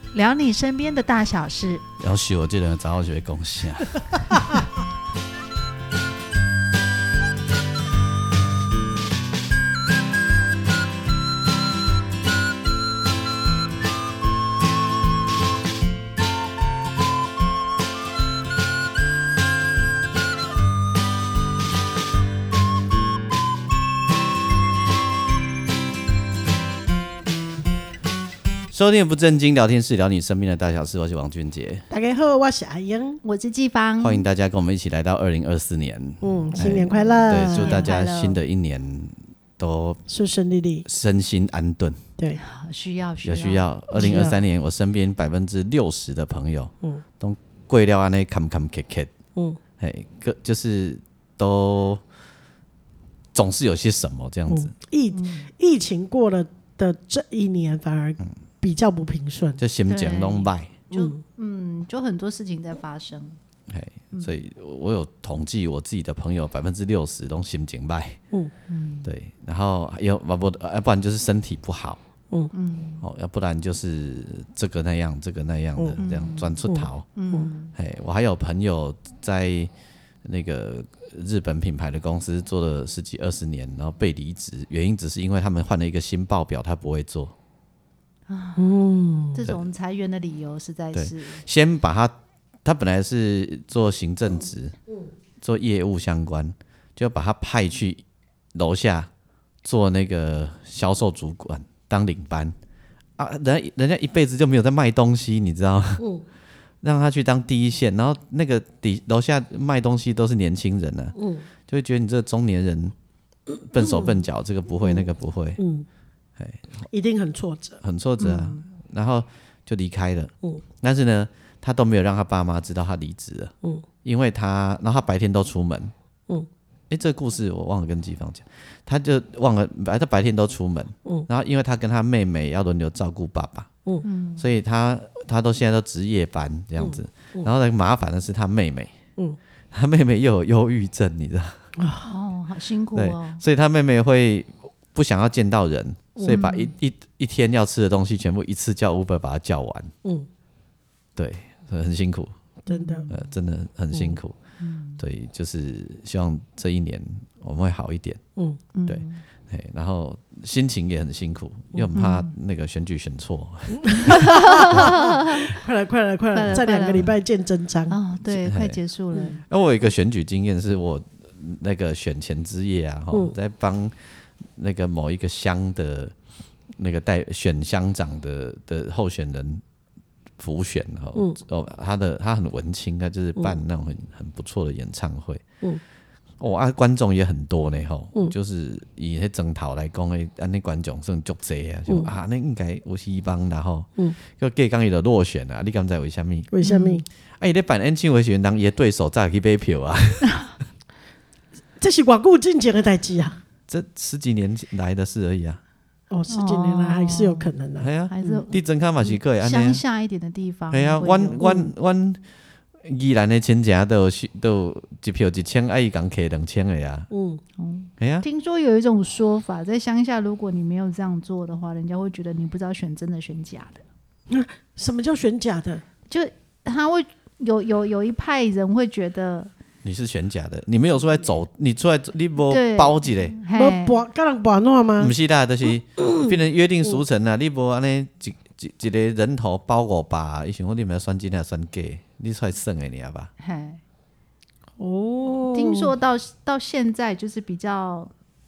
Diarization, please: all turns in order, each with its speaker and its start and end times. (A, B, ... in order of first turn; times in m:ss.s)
0:00.1-0:01.8 A
0:02.0-0:04.6 B
0:28.7-0:31.8 B
0:31.9-0:33.2 C
0:33.2-0:34.2 A
0:34.0-0:40.0 B
0:36.2-0:37.9 C
0:36.6-0:38.4 A
0:40.1-0:40.8 C
0:40.9-0:42.0 B
0:42.4-0:44.3 A
0:43.2-0:49.1 B
0:43.9-0:44.4 C
0:49.8-0:52.0 B
0:53.3-0:54.7 B
0:54.5-0:59.6 C
0:55.1-0:55.5 A
0:59.6-1:00.8 B
0:59.9-1:03.4 A
1:00.9-1:01.2 C
1:03.7-1:08.2 B
1:08.7-1:09.1 A
1:09.0-1:12.0 B
1:12.5-1:13.0 A
1:13.0-1:17.1 B
1:16.0-1:16.6 A
1:16.7-1:17.5 C
1:17.2-1:17.7 A
1:17.7-1:19.7 B
1:20.2-1:27.3 B
1:28.3-1:28.7 A
1:28.6-1:29.4 C
1:29.3-1:31.4 A
1:30.9-1:32.1 B
1:32.6-1:34.8 B
1:35.4-1:38.0 B
1:38.6-1:39.1 B
1:39.6-1:42.5 B
1:43.2-1:46.0 B
1:46.0-1:46.2 C
1:46.8-1:51.2 B
1:51.2-1:51.5 C
1:51.7-1:52.9 B
1:53.7-1:55.6 B
1:53.8-1:54.2 C
1:54.8-1:55.9 C
1:56.9-1:57.8 C
1:57.8-2:03.5 B
1:58.2-1:58.6 A
2:04.0-2:05.9 B
2:06.9-2:13.7 B
2:14.0-2:14.5 A
2:14.4-2:18.9 B
2:16.8-2:17.5 C
2:19.7-2:21.6 B
2:21.8-2:22.1 C
2:22.0-2:23.4 A
2:23.0-2:29.9 B
2:26.2-2:26.7 A
2:31.2-2:32.3 B
2:32.7-2:33.1 C
2:32.7-2:33.1 A
2:33.1-2:34.4 B
2:34.6-2:35.0 A
2:35.0-2:38.2 B
2:38.7-2:39.2 A
2:38.9-2:44.9 B
2:42.0-2:42.3 A
2:43.8-2:48.0 C
2:44.1-2:45.5 A
2:46.3-2:47.1 A
2:47.9-2:49.4 A
2:48.3-2:48.8 B
2:49.5-2:54.0 B
2:54.6-2:56.1 B
2:56.8-2:59.6 B
3:00.4-3:05.4 B
3:06.4-3:16.5 B
3:16.5-3:17.0 C
3:16.6-3:17.0 A
3:17.4-3:20.3 B
3:21.8-3:23.4 C
3:23.7-3:25.6 B
3:26.1-3:28.5 C
3:26.3-3:27.5 A
3:27.8-3:29.8 B
3:28.1-3:28.6 A
3:29.1-3:31.4 A
3:30.7-3:32.2 B
3:31.2-3:31.7 C
3:32.8-3:37.1 B
3:37.1-3:37.4 C
3:37.6-3:43.8 A
3:38.0-3:38.3 B
3:44.3-3:45.8 C
3:46.1-3:49.5 A
3:49.8-3:53.4 B
3:52.5-3:54.0 A
3:53.5-3:55.1 C
3:55.0-4:03.3 B
3:56.0-3:56.3 C
4:03.4-4:03.8 A
4:04.8-4:05.9 C
4:05.5-4:08.1 A